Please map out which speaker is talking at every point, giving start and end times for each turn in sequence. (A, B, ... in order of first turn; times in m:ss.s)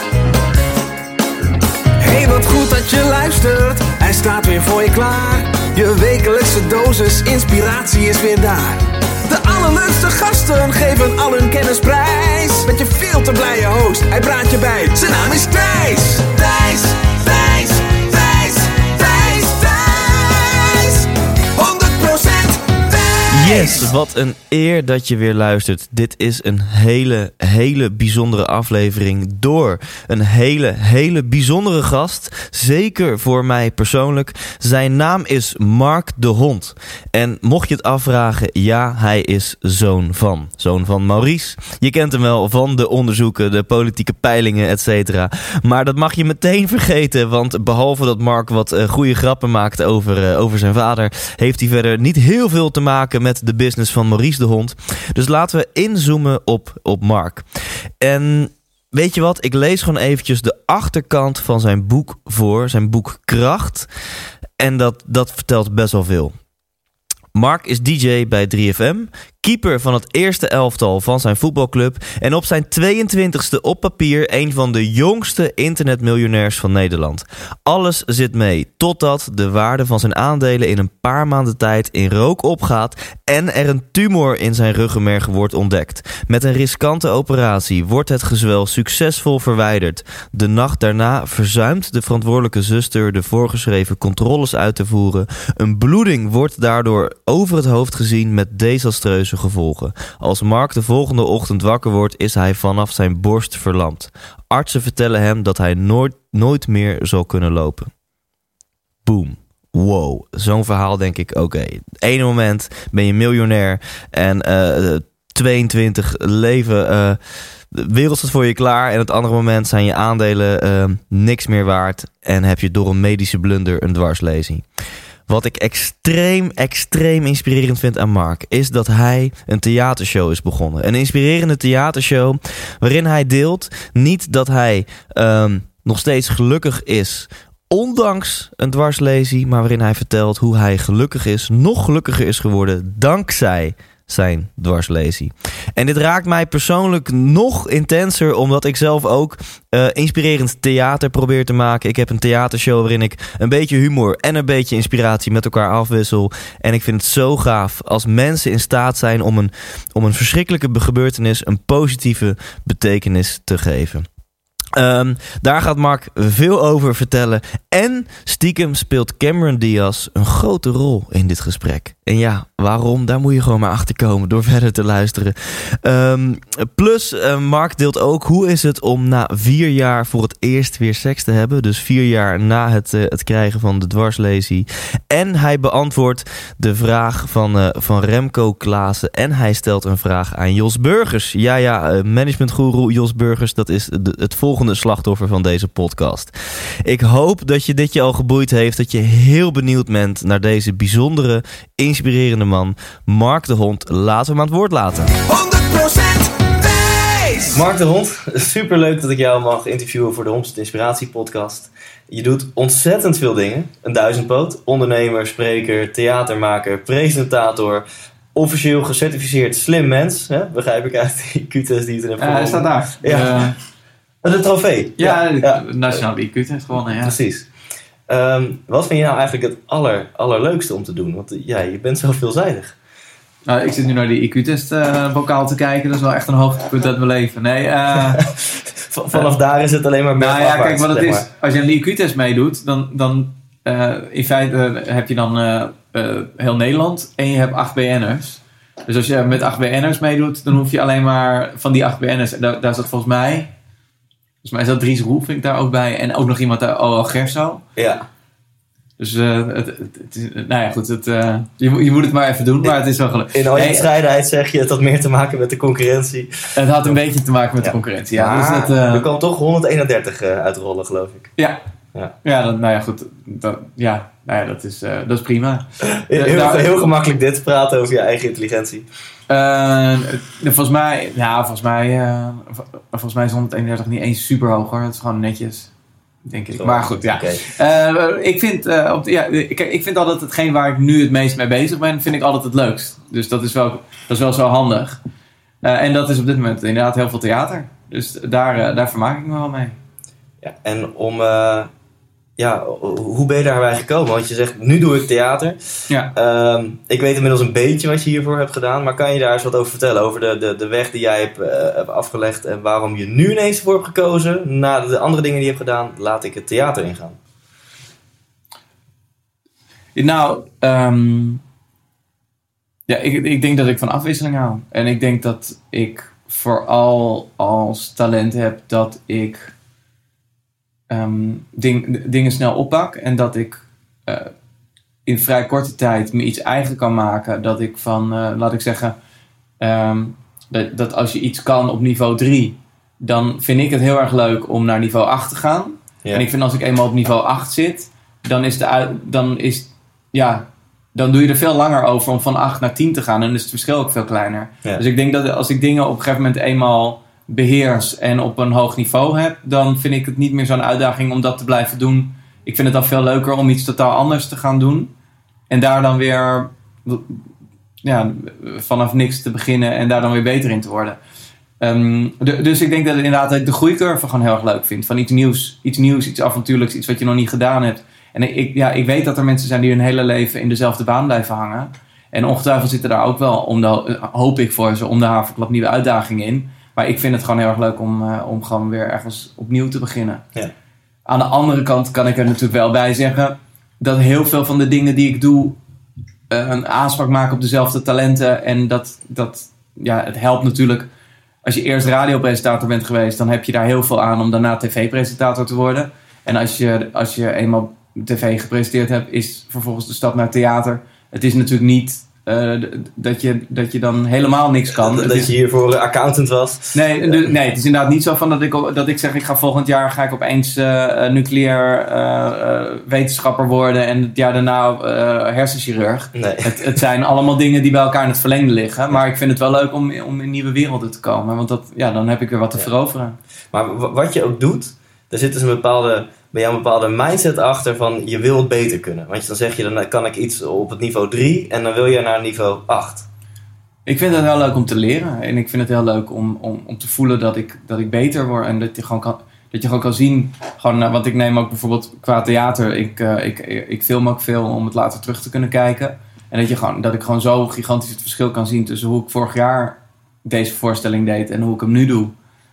0:02.0-0:23.9 A
0:23.3-0:57.4 B
0:58.0-1:03.9 B
1:04.6-1:06.4 B
1:07.3-1:47.9 B
1:49.0-1:57.2 B
1:57.7-2:04.6 B
2:05.3-2:44.1 B
2:44.7-3:16.3 B
3:16.8-3:25.1 B
3:25.1-3:27.6 A
3:27.5-3:43.5 B
3:42.2-3:43.6 C
3:44.2-3:45.6 B
3:45.0-3:47.2 C
3:47.0-3:47.5 B
3:48.1-3:52.8 B
3:53.4-3:58.3 C
3:58.3-4:01.2 B
4:00.2-4:13.5 C
4:14.4-4:17.6 C
4:17.8-4:18.0 B
4:19.0-4:23.8 C
4:23.3-4:26.5 B
4:26.6-4:29.0 C
4:27.6-4:31.3 B
4:32.2-4:36.7 C
4:35.8-4:38.8 B
4:39.3-4:45.7 C
4:46.2-4:55.0 C
4:46.6-4:47.4 B
4:55.6-4:59.8 C
5:00.4-5:01.7 B
5:02.4-5:05.6 B
5:06.1-5:17.2 B
5:19.9-5:21.4 C
5:22.9-5:29.5 C
5:30.9-5:34.3 C
5:35.0-5:39.0 C
5:39.6-6:04.9 C
6:05.5-6:07.2 C
6:07.8-6:11.0 C
6:11.6-6:30.2 C
6:31.0-6:35.6 C
6:36.3-6:40.9 C
6:41.4-6:55.3 C
6:54.8-6:57.2 B
6:56.7-7:13.2 C
7:06.1-7:06.6 B
7:13.5-7:23.1 B
7:23.8-7:42.1 C